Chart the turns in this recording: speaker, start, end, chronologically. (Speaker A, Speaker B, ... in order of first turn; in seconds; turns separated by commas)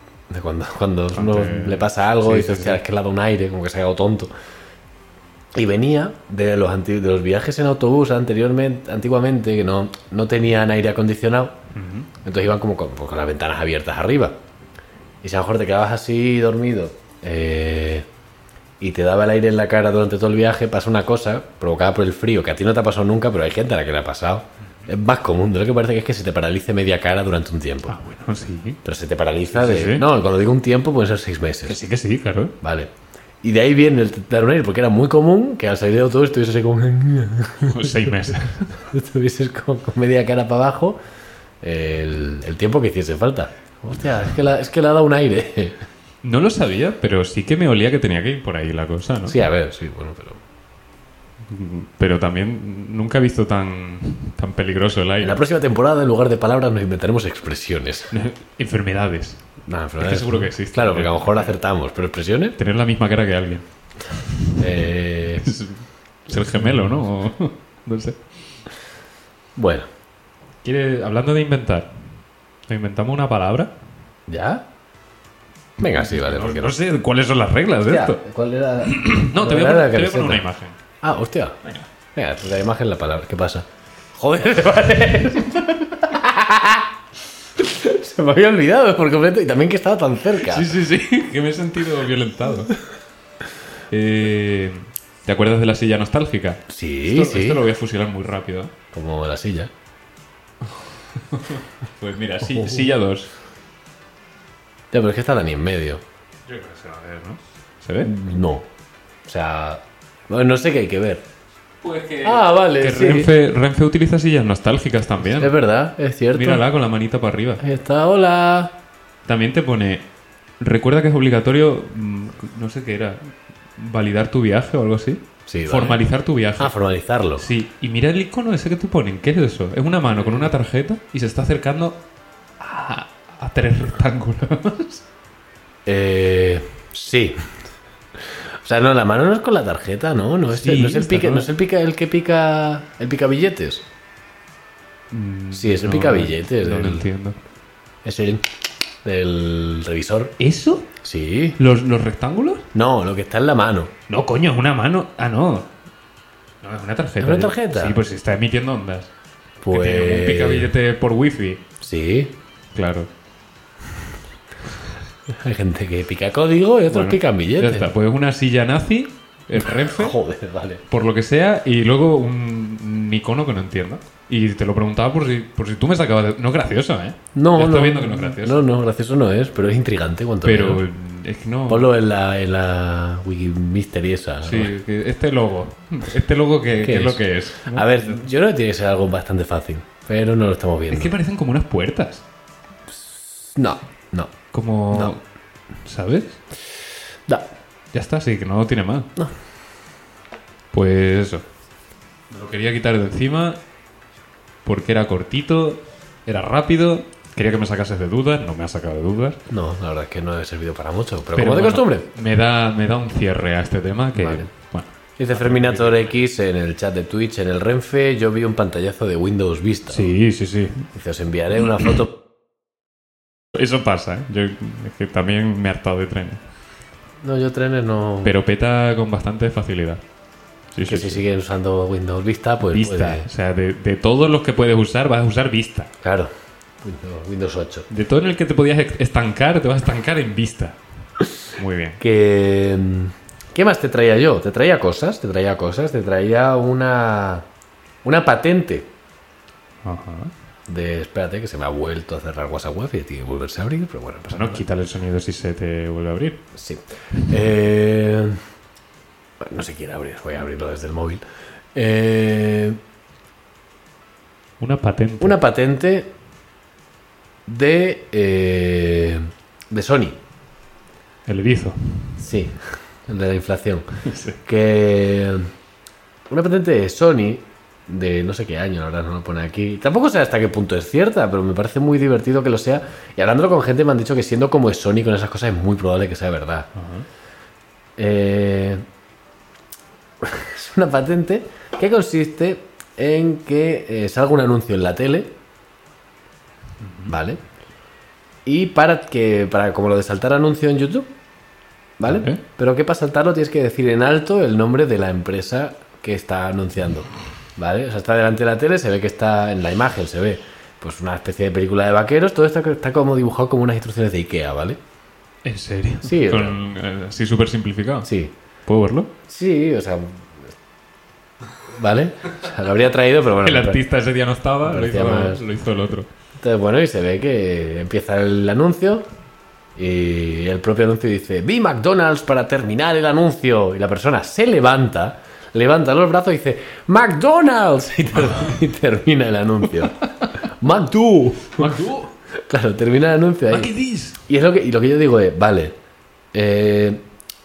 Speaker A: 0.3-4.3, Speaker B: 1.1-2.8, Speaker A: 5.5-11.6, Speaker B: 11.7-12.1, Speaker A: 12.2-14.4, Speaker A: 15.2-18.1, Speaker A: 18.8-28.0, Speaker B: 27.9-28.8, Speaker A: 28.9-31.8, Speaker B: 29.5-30.1, Speaker B: 31.7-32.5, Speaker A: 32.6-41.0, Speaker B: 37.6-38.8, Speaker A: 41.6-45.8, Speaker B: 46.2-49.4, Speaker A: 49.3-50.4, Speaker B: 51.5-55.4, Speaker A: 55.2-58.1, Speaker B: 58.1-59.4, Speaker A: 59.7-62.6, Speaker B: 60.0-61.5, Speaker B: 62.6-63.6, Speaker A: 64.6-65.5, Speaker B: 65.4-68.2, Speaker A: 69.6-69.9, Speaker B: 70.6-71.9, Speaker B: 72.7-73.7, Speaker A: 74.3-74.6, Speaker A: 75.8-76.8, Speaker B: 75.9-78.2, Speaker A: 77.9-80.5, Speaker B: 78.8-80.8, Speaker A: 81.0-81.6, Speaker A: 82.1-86.9, Speaker A: 87.5-90.8, Speaker B: 90.4-92.8, Speaker B: 93.9-98.7, Speaker A: 96.7-97.6, Speaker A: 98.9-99.7, Speaker B: 101.1-103.3, Speaker A: 104.9-106.0, Speaker B: 106.5-108.1, Speaker A: 108.0-108.7, Speaker A: 109.2-111.2, Speaker B: 111.8-115.5, Speaker A: 112.2-113.3, Speaker A: 115.3-116.7, Speaker B: 116.3-117.6, Speaker A: 117.6-118.7, Speaker B: 119.3-120.0, Speaker B: 120.6-126.7, Speaker A: 125.5-126.0, Speaker A: 126.6-127.5, Speaker B: 127.4-132.0, Speaker A: 130.1-130.5, Speaker B: 132.6-135.0, Speaker A: 135.9-137.5, Speaker A: 138.6-143.9, Speaker B: 140.5-141.5, Speaker B: 145.1-147.4, Speaker A: 145.5-147.1, Speaker A: 148.0-148.4, Speaker A: 149.0-150.3, Speaker B: 150.4-150.9, Speaker A: 151.0-151.6, Speaker B: 151.6-152.7, Speaker A: 152.7-153.9, Speaker B: 154.1-155.7, Speaker B: 156.6-159.1, Speaker A: 157.2-158.0, Speaker A: 159.6-160.7, Speaker B: 159.7-161.6, Speaker A: 161.8-162.3, Speaker B: 162.8-163.1, Speaker A: 165.3-167.9, Speaker B: 166.9-170.2, Speaker A: 169.8-170.8, Speaker B: 170.9-178.6, Speaker A: 177.3-180.8, Speaker B: 180.4-181.9, Speaker A: 181.7-184.7, Speaker B: 184.4-188.2, Speaker A: 186.8-191.1, Speaker B: 190.9-192.2, Speaker A: 192.9-194.3, Speaker B: 194.5-195.2, Speaker B: 195.8-196.4, Speaker B: 197.9-199.1, Speaker B: 200.7-201.4, Speaker B: 202.3-203.6, Speaker B: 204.7-209.4, Speaker A: 209.5-212.1, Speaker B: 211.3-216.1, Speaker A: 214.2-214.5, Speaker A: 215.2-220.1, Speaker B: 219.9-220.9, Speaker A: 220.9-222.1, Speaker B: 223.5-226.4, Speaker A: 227.2-228.3, Speaker B: 228.2-230.0, Speaker B: 230.7-231.2, Speaker A: 230.9-233.3, Speaker B: 232.7-235.9, Speaker A: 236.0-236.3, Speaker A: 236.8-237.9, Speaker B: 237.9-240.8, Speaker B: 241.6-242.0, Speaker A: 242.0-247.4, Speaker A: 248.0-248.9, Speaker B: 249.8-250.3, Speaker A: 250.7-254.7, Speaker B: 254.3-256.4, Speaker A: 256.6-258.4, Speaker A: 259.4-261.2, Speaker A: 261.7-262.8, Speaker B: 264.6-265.4, Speaker A: 265.2-266.1, Speaker A: 267.5-270.2, Speaker B: 271.3-272.4, Speaker A: 272.2-273.9, Speaker B: 274.1-274.4, Speaker A: 274.4-275.5, Speaker A: 276.3-286.7, Speaker B: 286.8-287.1, Speaker A: 288.0-288.8, Speaker A: 290.2-295.3, Speaker B: 296.8-297.1, Speaker A: 297.1-297.4, Speaker A: 298.5-301.1, Speaker A: 302.0-314.8, Speaker B: 302.1-302.4, Speaker B: 315.4-318.1, Speaker A: 316.0-316.6, Speaker A: 318.1-318.3, Speaker B: 318.7-319.1, Speaker A: 319.3-320.5, Speaker A: 321.7-323.8, Speaker B: 323.4-326.1, Speaker A: 324.7-325.4, Speaker A: 326.4-329.1, Speaker A: 329.8-341.8, Speaker B: 340.0-340.4, Speaker B: 341.5-342.1, Speaker A: 342.3-343.7, Speaker B: 343.5-344.2, Speaker A: 344.3-345.7, Speaker A: 346.3-347.0